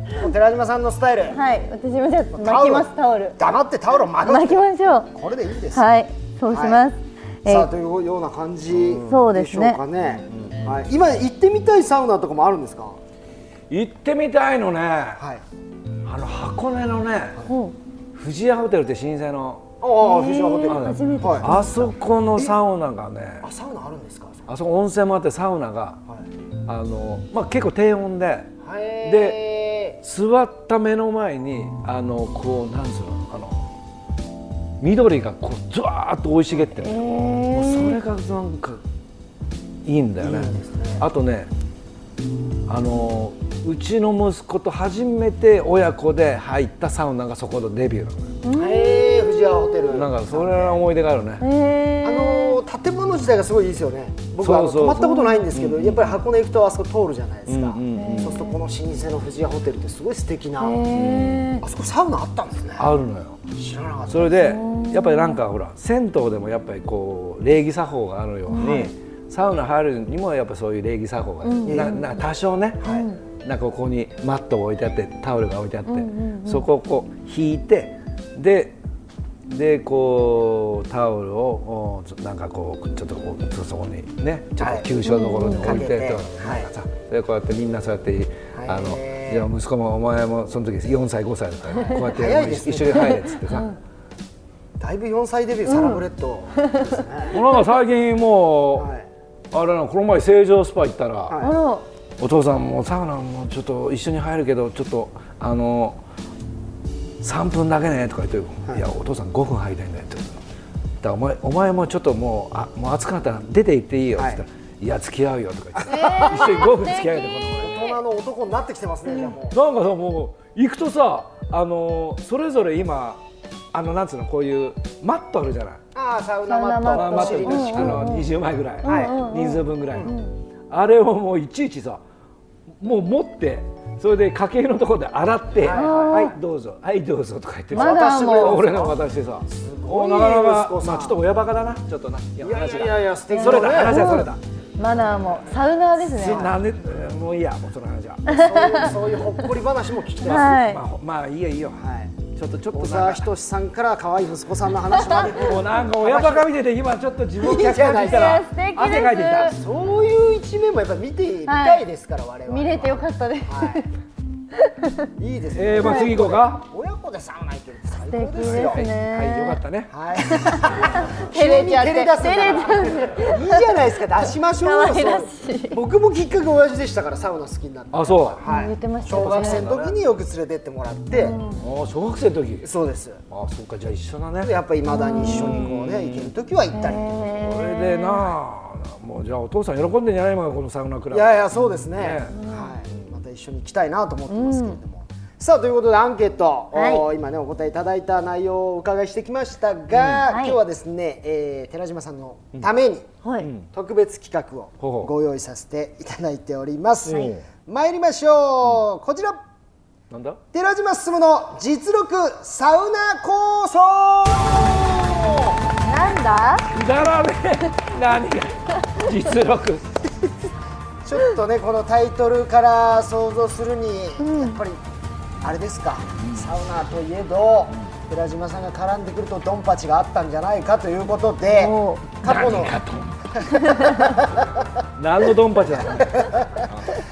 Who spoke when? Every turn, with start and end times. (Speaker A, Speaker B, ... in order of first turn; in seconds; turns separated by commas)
Speaker A: 0.1-1.4, Speaker B: 1.3-3.4, Speaker A: 2.3-5.8, Speaker B: 4.2-5.1, Speaker B: 5.7-7.7, Speaker A: 6.5-6.8, Speaker A: 7.5-13.0, Speaker C: 8.7-9.2, Speaker B: 9.1-9.8, Speaker C: 10.3-10.7, Speaker C: 13.7-15.2, Speaker A: 15.2-15.4, Speaker C: 16.0-17.4, Speaker B: 17.4-17.7, Speaker C: 18.1-19.7, Speaker A: 19.8-21.5, Speaker B: 20.0-21.9, Speaker C: 20.6-23.4, Speaker A: 23.4-24.5, Speaker C: 24.5-26.0, Speaker C: 26.6-28.5, Speaker A: 28.6-30.0, Speaker C: 29.0-29.4, Speaker C: 30.0-33.6, Speaker C: 34.8-38.8, Speaker B: 36.8-38.0, Speaker C: 39.8-41.5, Speaker A: 40.2-41.0, Speaker C: 42.7-48.3, Speaker B: 48.4-49.3, Speaker A: 48.5-50.8, Speaker C: 49.9-51.4, Speaker B: 51.4-52.6, Speaker A: 52.0-60.8, Speaker C: 54.4-56.2, Speaker B: 55.0-55.4, Speaker C: 57.5-58.4, Speaker B: 57.9-58.5, Speaker B: 60.6-61.6, Speaker C: 60.9-61.5, Speaker A: 61.6-62.9, Speaker C: 62.8-63.4, Speaker A: 63.5-64.5, Speaker C: 64.1-78.8, Speaker B: 64.4-65.4, Speaker B: 68.5-68.9, Speaker B: 71.4-72.2, Speaker A: 71.7-72.0, Speaker B: 72.8-73.2, Speaker B: 75.9-76.7, Speaker C: 79.5-93.7, Speaker A: 84.6-84.9, Speaker B: 85.0-85.8, Speaker A: 85.5-86.7, Speaker A: 88.5-89.5, Speaker A: 91.9-93.2, Speaker B: 93.5-93.7, Speaker A: 94.8-97.3, Speaker B: 95.7-96.0, Speaker C: 97.3-98.9, Speaker A: 98.8-99.1, Speaker C: 99.5-101.4, Speaker A: 101.3-101.5, Speaker B: 101.4-101.8, Speaker C: 102.2-106.0, Speaker C: 107.2-110.4, Speaker C: 111.0-117.9, Speaker B: 115.8-117.9, Speaker A: 115.9-116.5, Speaker A: 117.6-119.6, Speaker C: 119.5-123.2, Speaker C: 123.7-125.8, Speaker A: 125.9-128.1, Speaker B: 126.5-128.3, Speaker C: 126.9-130.1, Speaker B: 128.8-130.3, Speaker A: 128.8-129.2, Speaker C: 130.7-132.0, Speaker C: 132.8-144.4, Speaker A: 135.6-136.3, Speaker B: 135.7-136.3, Speaker A: 137.7-141.2, Speaker B: 137.7-138.6, Speaker A: 142.4-144.2, Speaker B: 143.3-146.5, Speaker C: 146.1-148.3, Speaker A: 146.2-146.5, Speaker B: 148.3-148.9, Speaker A: 148.3-150.5, Speaker C: 150.2-153.2, Speaker B: 150.2-150.8, Speaker A: 151.8-152.2, Speaker A: 152.7-156.5, Speaker B: 155.0-155.3, Speaker C: 155.2-159.6, Speaker B: 157.4-159.5, Speaker A: 157.4-158.4, Speaker A: 159.4-163.8, Speaker B: 161.5-161.8, Speaker B: 162.5-163.9, Speaker B: 164.5-165.1, Speaker A: 165.2-168.8, Speaker C: 165.5-166.6, Speaker B: 165.8-166.1, Speaker B: 168.1-169.6, Speaker C: 168.4-169.9, Speaker A: 169.9-181.4, Speaker B: 170.4-173.7, Speaker B: 174.6-175.8, Speaker C: 177.9-178.4, Speaker B: 178.4-179.7, Speaker C: 179.1-179.9, Speaker B: 181.1-181.6, Speaker C: 181.6-182.7, Speaker A: 182.6-183.2, Speaker C: 183.3-184.5, Speaker A: 184.4-187.3, Speaker B: 184.9-185.7, Speaker C: 185.1-186.3, Speaker B: 186.7-188.3, Speaker C: 187.4-191.4, Speaker A: 191.1-203.1, Speaker C: 191.9-192.3, Speaker B: 192.3-192.7, Speaker B: 194.3-194.8, Speaker B: 196.7-197.1, Speaker C: 199.9-200.2, Speaker B: 200.2-200.6, Speaker B: 203.2-203.5, Speaker C: 203.4-203.7, Speaker A: 203.7-209.4, Speaker C: 204.8-205.1, Speaker C: 207.1-207.4, Speaker C: 210.1-210.4, Speaker A: 210.5-215.6, Speaker B: 215.8-216.7, Speaker C: 216.7-219.9, Speaker A: 221.0-224.8, Speaker B: 224.2-224.6, Speaker A: 225.4-232.8, Speaker C: 226.2-226.5, Speaker B: 231.5-232.2, Speaker C: 232.2-233.5, Speaker A: 233.4-234.7, Speaker B: 233.4-234.2, Speaker C: 234.9-237.0, Speaker A: 235.7-236.7